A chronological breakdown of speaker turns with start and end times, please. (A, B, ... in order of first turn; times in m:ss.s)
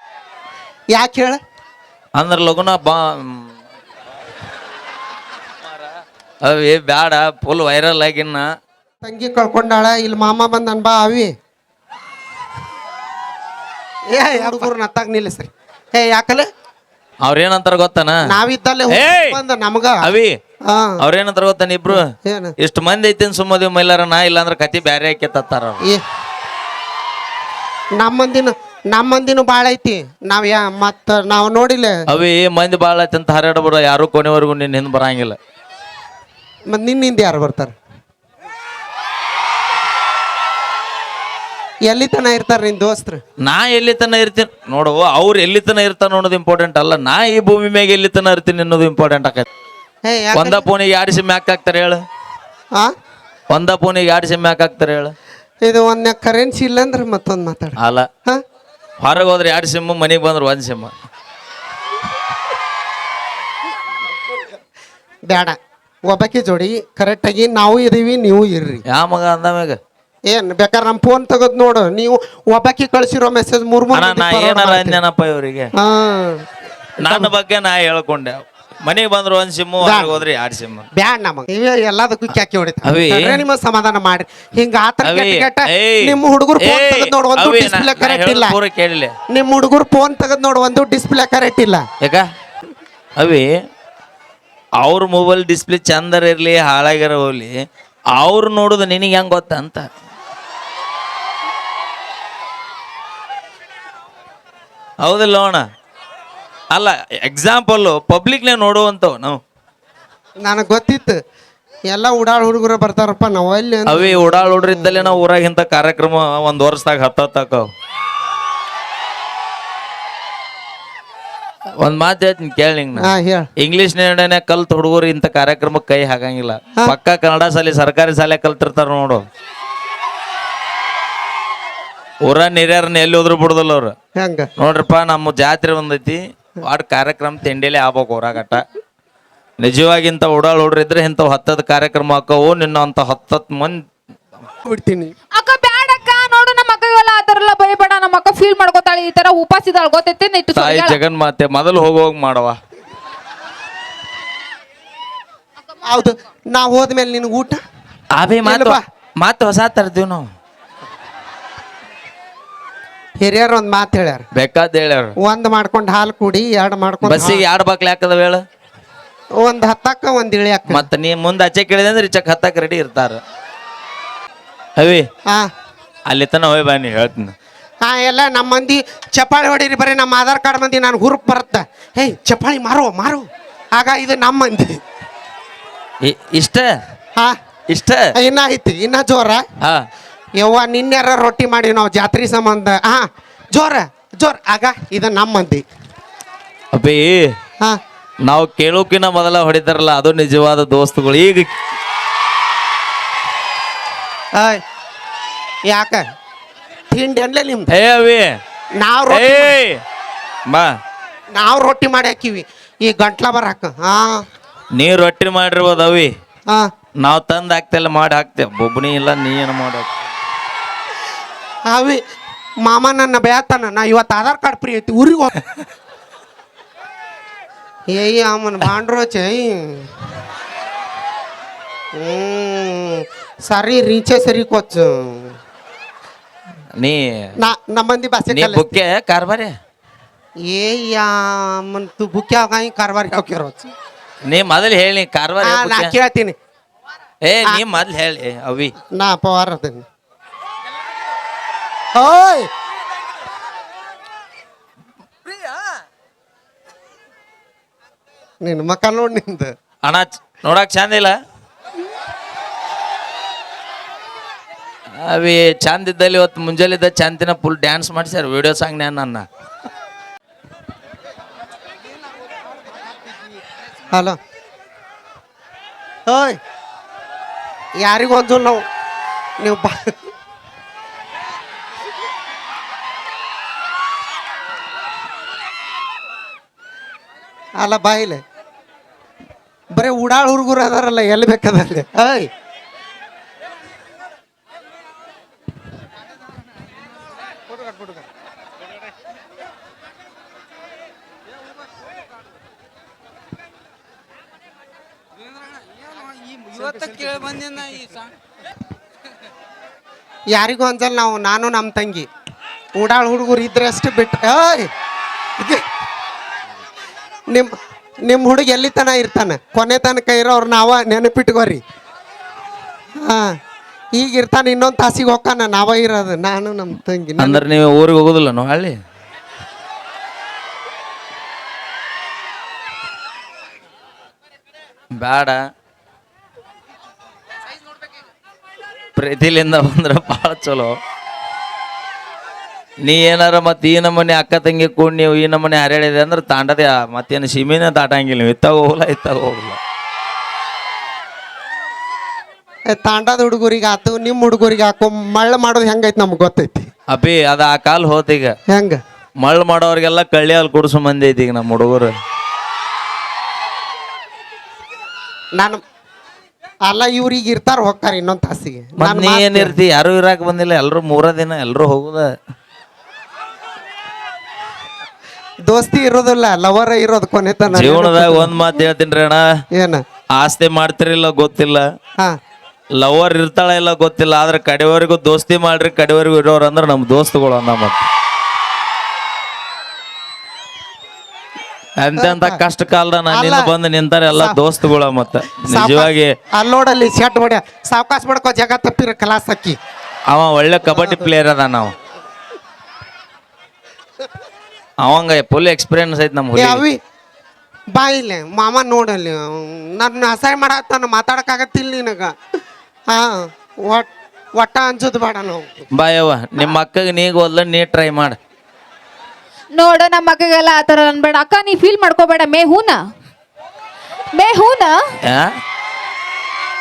0:00.9-0:01.4 A
0:02.2-0:03.5 B
0:06.4-0:08.4 B
0:09.0-0:11.3 A
0:14.1-0:16.4 A
0:17.2-0:18.2 B
0:18.2-0:20.0 A
0:18.9-0:19.4 B
0:20.0-0:20.4 B
0:20.7-0:21.0 A
0:21.0-0:22.1 B
0:21.9-0:22.5 A
0:22.6-0:25.8 B
0:28.0-0:32.0 A
0:32.1-0:35.4 B
0:36.7-0:37.7 A
0:41.9-0:43.2 A
0:43.4-0:49.4 B
0:50.0-0:50.6 A
0:50.3-0:52.0 B
0:53.5-0:55.1 B
0:55.6-0:58.4 A
0:57.8-0:58.1 B
0:59.0-1:00.9 B
1:05.3-1:08.8 A
1:08.9-1:09.8 B
1:10.3-1:15.0 A
1:13.9-1:15.7 B
1:15.8-1:16.5 A
1:17.0-1:20.9 B
1:17.0-1:17.3 A
1:19.8-1:20.2 A
1:20.9-1:28.6 A
1:22.8-1:23.4 B
1:25.0-1:29.1 B
1:29.3-1:31.8 A
1:33.2-1:33.4 B
1:34.8-1:37.5 B
1:38.2-1:39.8 B
1:45.0-1:45.6 B
1:46.7-1:49.4 B
1:50.4-1:51.2 A
1:51.9-1:55.1 A
1:53.8-1:57.7 B
2:01.8-2:09.2 B
2:03.0-2:03.5 A
2:12.2-2:13.9 B
2:14.2-2:14.5 A
2:14.6-2:18.6 B
2:19.6-2:23.8 B
2:24.6-2:25.1 A
2:25.3-2:31.0 C
2:30.5-2:32.6 B
2:35.8-2:37.6 A
2:38.1-2:40.2 B
2:38.4-2:38.8 A
2:43.2-2:44.2 A
2:44.3-2:45.1 B
2:45.2-2:47.4 A
2:47.0-2:48.4 B
2:49.4-2:50.8 A
2:50.7-2:53.2 B
2:54.8-2:55.0 B
2:56.1-2:57.3 B
2:57.8-3:04.8 A
3:06.0-3:06.7 B
3:07.7-3:08.1 B
3:08.1-3:09.4 A
3:10.4-3:15.6 A
3:16.7-3:17.3 B
3:18.2-3:21.5 B
3:24.3-3:24.6 A
3:25.6-3:26.0 A
3:26.9-3:27.7 A
3:27.7-3:28.3 B
3:28.8-3:29.6 A
3:29.1-3:29.8 B
3:31.3-3:34.2 A
3:34.7-3:36.1 B
3:37.0-3:39.9 B
3:41.7-3:42.0 A
3:42.6-3:45.3 A
3:47.9-3:49.9 A
3:52.0-3:55.3 A
3:56.8-3:57.3 B
3:57.4-3:58.7 A
3:58.3-3:59.5 B
4:00.4-4:03.7 A
4:04.2-4:05.9 B
4:05.4-4:06.3 A
4:07.2-4:08.7 B
4:08.9-4:09.8 A
4:11.9-4:12.5 A
4:18.4-4:19.5 A
4:19.8-4:21.1 B
4:25.0-4:29.2 B
4:33.9-4:34.2 A
4:36.1-4:36.4 A
4:37.8-4:38.6 A
4:39.4-4:40.0 A
4:47.6-4:48.2 A
4:49.7-4:52.3 A
5:10.3-5:12.1 A
5:12.8-5:14.7 A
5:15.4-5:15.6 A
5:18.0-5:21.6 A
5:23.0-5:23.3 A
5:23.9-5:27.4 A
5:27.2-5:28.7 B
5:34.9-5:35.4 B
5:39.0-5:40.8 B
5:42.8-5:49.6 B
5:52.7-5:56.7 A
5:56.9-5:58.3 B
5:58.5-5:58.8 A
5:59.2-6:01.9 B
6:06.6-6:09.6 A
6:08.8-6:12.1 B
6:15.5-6:18.3 A
6:17.5-6:19.2 B
6:19.6-6:19.8 A
6:20.1-6:21.6 B
6:22.8-6:27.8 B
6:31.8-6:36.1 B
6:32.0-6:32.4 A
6:33.1-6:33.5 A
6:34.1-6:34.4 A
6:35.3-6:39.6 A
6:40.1-6:41.7 B
6:40.7-6:41.0 A
6:44.8-6:46.6 B
6:46.4-6:46.8 A
6:47.7-6:52.1 A
6:52.9-6:55.6 A
6:55.7-6:58.2 B
6:59.6-7:02.8 C
7:04.1-7:04.8 C
7:05.0-7:05.3 B